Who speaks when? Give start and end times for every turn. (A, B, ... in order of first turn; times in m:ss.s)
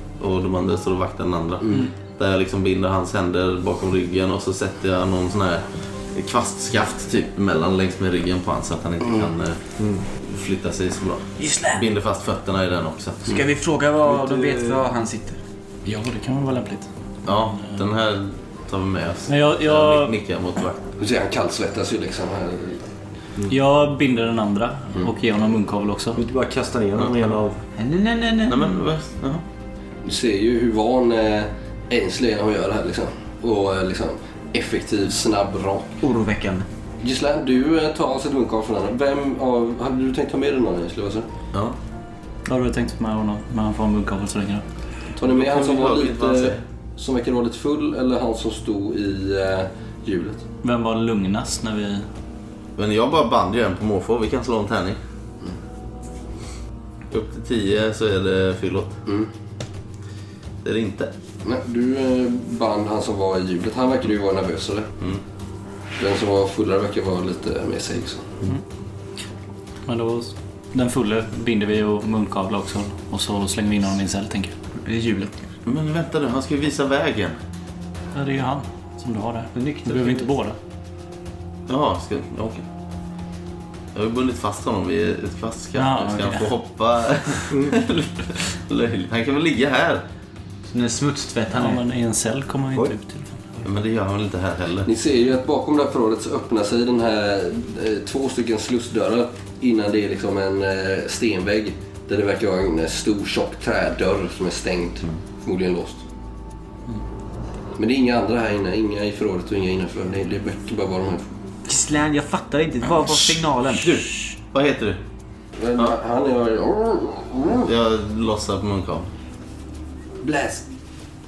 0:00.2-0:09.6 A
0:09.8-0:10.0 B
0:10.2-0:13.4 A
0:11.4-0:11.8 C
0:13.3-0:15.4 C
0:14.0-0:14.8 B
0:15.9-0:16.9 D
0:17.2-0:20.8 A
0:19.3-0:20.2 D
0:21.0-0:22.8 E
0:23.5-0:26.2 D
0:26.2-0:27.6 B
0:27.8-0:28.6 C
0:28.5-0:29.4 A
0:30.0-0:35.9 E
0:36.0-0:36.7 C
0:37.0-0:41.3 E
0:42.5-0:44.6 D
0:45.2-0:50.4 E
0:45.2-0:46.6 A
0:50.6-0:52.1 D
0:52.8-0:55.0 A
0:57.1-0:59.0 A
1:00.6-1:01.1 A
1:01.4-1:04.9 E
1:06.0-1:08.3 E
1:09.9-1:14.5 D
1:14.8-1:15.5 C
1:15.6-1:17.4 A
1:18.1-1:20.6 D
1:19.6-1:20.3 C
1:21.7-1:22.7 A
1:23.9-1:30.0 A
1:25.8-1:26.5 D
1:27.5-1:27.8 B
1:30.7-1:31.8 C
1:31.5-1:33.5 D
1:33.6-1:34.9 A
1:34.8-1:46.0 E
1:47.8-1:51.3 E
1:51.7-1:54.0 C
1:53.7-1:55.0 A
1:55.6-1:57.7 E
1:57.6-1:59.1 A
2:00.2-2:00.6 E